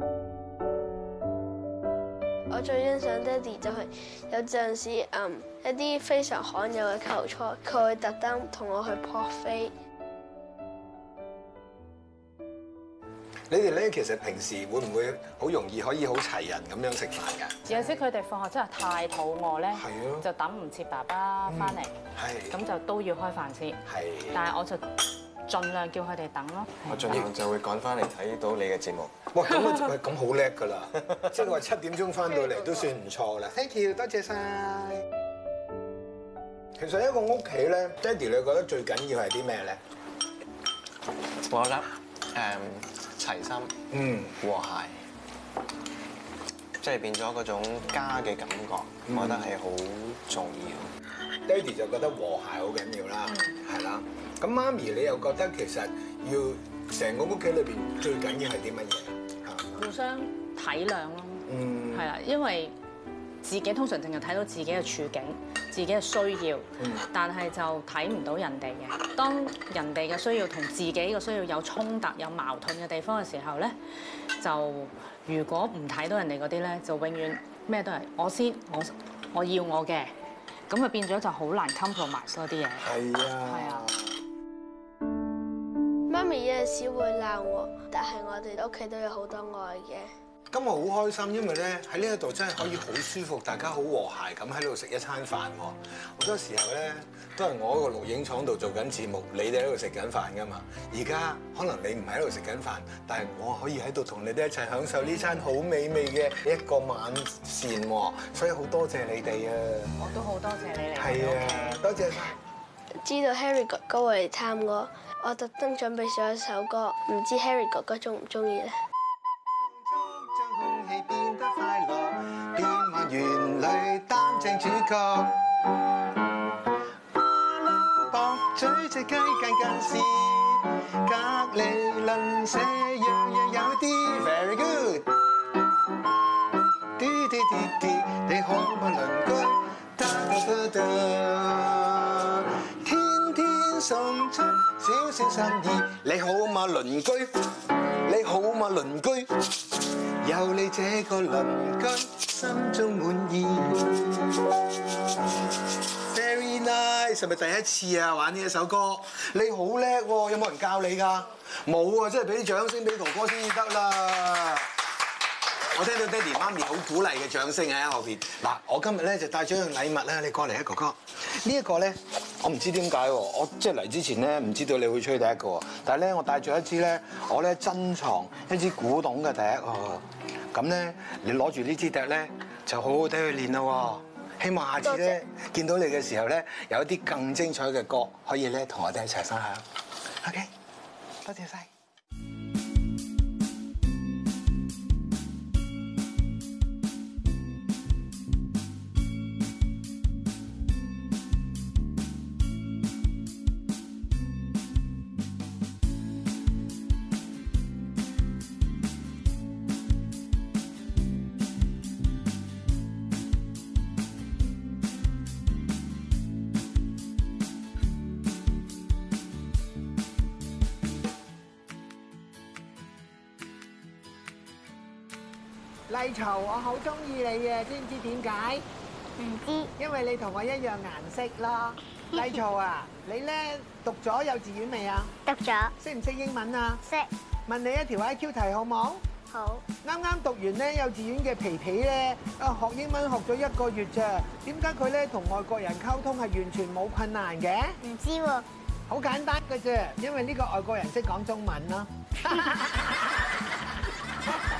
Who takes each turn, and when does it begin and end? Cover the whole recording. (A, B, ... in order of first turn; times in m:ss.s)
0:02.5-0:09.7 A
0:13.5-0:17.9 B
0:17.6-0:21.9 C
0:19.7-0:20.3 B
0:21.5-0:22.6 B
0:22.5-0:23.8 C
0:23.8-0:24.4 B
0:24.3-0:24.8 C
0:25.4-0:27.0 C
0:26.9-0:29.3 D
0:29.3-0:35.0 B
0:36.8-0:39.8 B
0:41.4-0:43.8 D
0:43.9-0:44.4 B
0:44.4-0:45.0 D
0:46.8-0:50.9 D
0:49.1-0:49.5 B
0:51.4-0:59.7 B
0:53.2-0:53.5 C
0:59.8-1:02.7 C
1:01.5-1:02.1 B
1:03.4-1:13.7 C
1:06.8-1:07.1 B
1:14.4-1:20.1 C
1:20.7-1:23.9 C
1:22.8-1:24.1 B
1:26.1-1:30.1 A
1:30.5-1:49.9 B
1:50.0-1:52.0 C
1:51.0-1:52.4 B
1:53.0-1:58.8 A
1:59.6-2:05.4 B
2:07.1-2:15.4 B
2:17.0-2:35.3 B
2:36.0-2:44.7 B
2:45.7-3:09.6 B
3:04.8-3:05.2 A
3:10.2-3:10.5 B
3:11.2-3:11.7 B
3:45.9-3:48.6 E
3:49.2-3:49.7 F
3:49.8-3:55.1 E
3:55.2-3:55.7 F
3:55.8-3:56.8 E
3:57.5-3:59.0 E
3:59.3-3:59.6 F
3:59.8-4:07.8 E
4:07.8-4:08.4 F
4:08.9-4:13.4 E